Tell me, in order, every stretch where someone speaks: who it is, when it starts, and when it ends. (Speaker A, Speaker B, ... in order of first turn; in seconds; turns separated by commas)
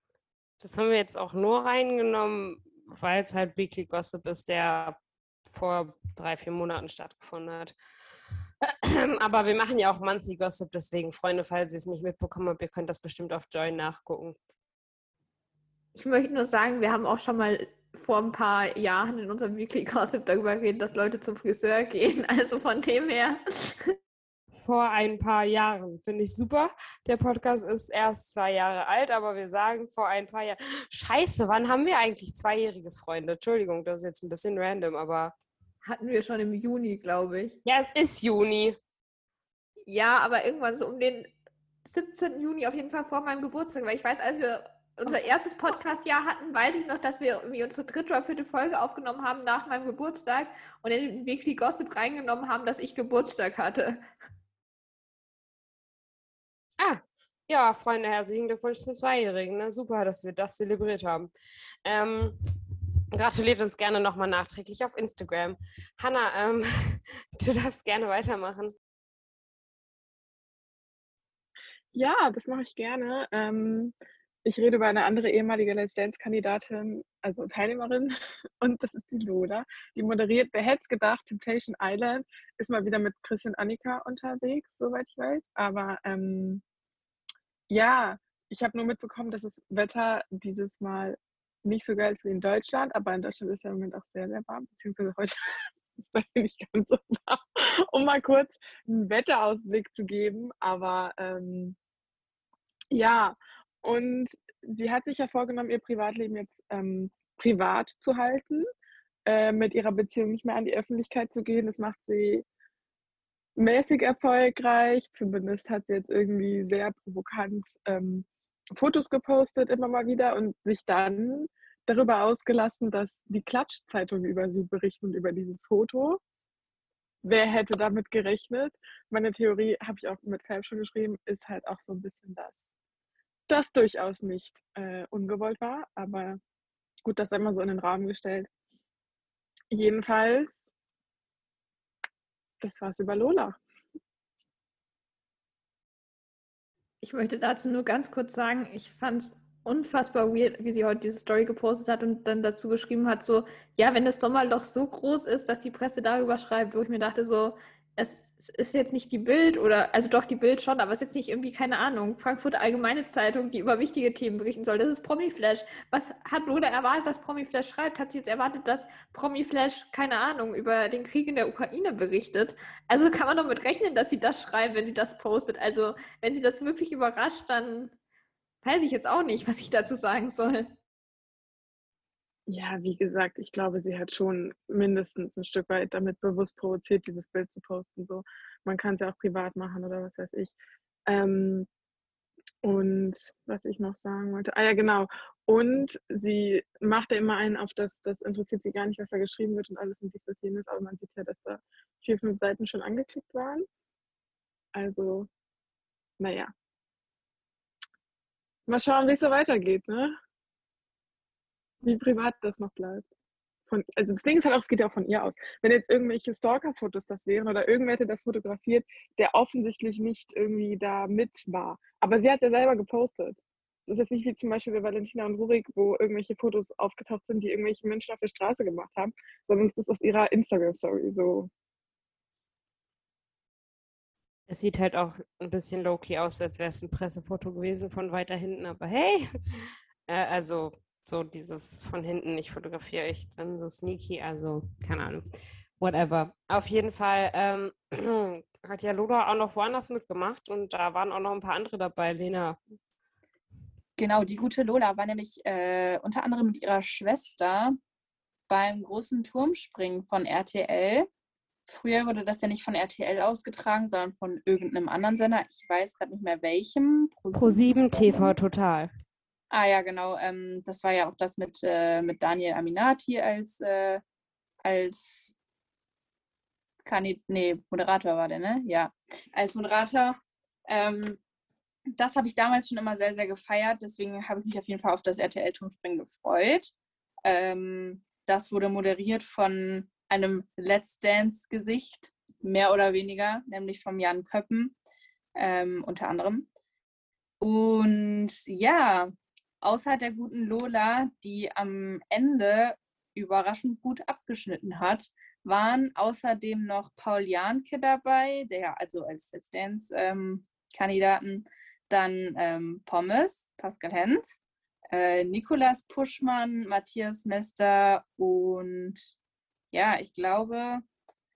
Speaker A: 0.6-7.8, Speaker A: 8.6-14.4, Speaker B: 15.9-23.9, Speaker A: 24.5-35.3, Speaker B: 35.8-37.6, Speaker A: 37.6-38.8, Speaker B: 39.9-41.3, Speaker B: 41.9-54.0, Speaker A: 56.8-61.3, Speaker A: 61.9-62.4, Speaker A: 63.1-68.7, Speaker C: 71.9-86.6, Speaker C: 87.7-95.4, Speaker C: 96.0-101.8, Speaker C: 102.9-108.7, Speaker C: 109.2-112.4, Speaker C: 113.6-126.2, Speaker C: 127.2-132.7, Speaker C: 133.5-136.4, Speaker C: 137.1-138.5, Speaker C: 139.7-140.7, Speaker C: 142.6-143.6, Speaker B: 147.0-177.9, Speaker B: 178.6-180.8, Speaker C: 182.5-190.5, Speaker C: 191.1-191.7, Speaker C: 192.6-203.7, Speaker C: 204.7-205.3, Speaker C: 206.2-206.5, Speaker C: 208.7-210.1, Speaker C: 211.8-213.1, Speaker C: 213.7-231.5, Speaker A: 234.5-252.6, Speaker D: 254.0-257.8, Speaker D: 258.5-261.1, Speaker D: 261.7-268.3, Speaker A: 267.3-268.9, Speaker D: 269.5-274.0, Speaker D: 274.6-275.3, Speaker D: 276.8-281.2, Speaker D: 281.9-286.7, Speaker D: 287.2-294.8, Speaker D: 295.4-296.5, Speaker D: 297.4-314.4, Speaker D: 314.9-319.1, Speaker D: 319.7-320.8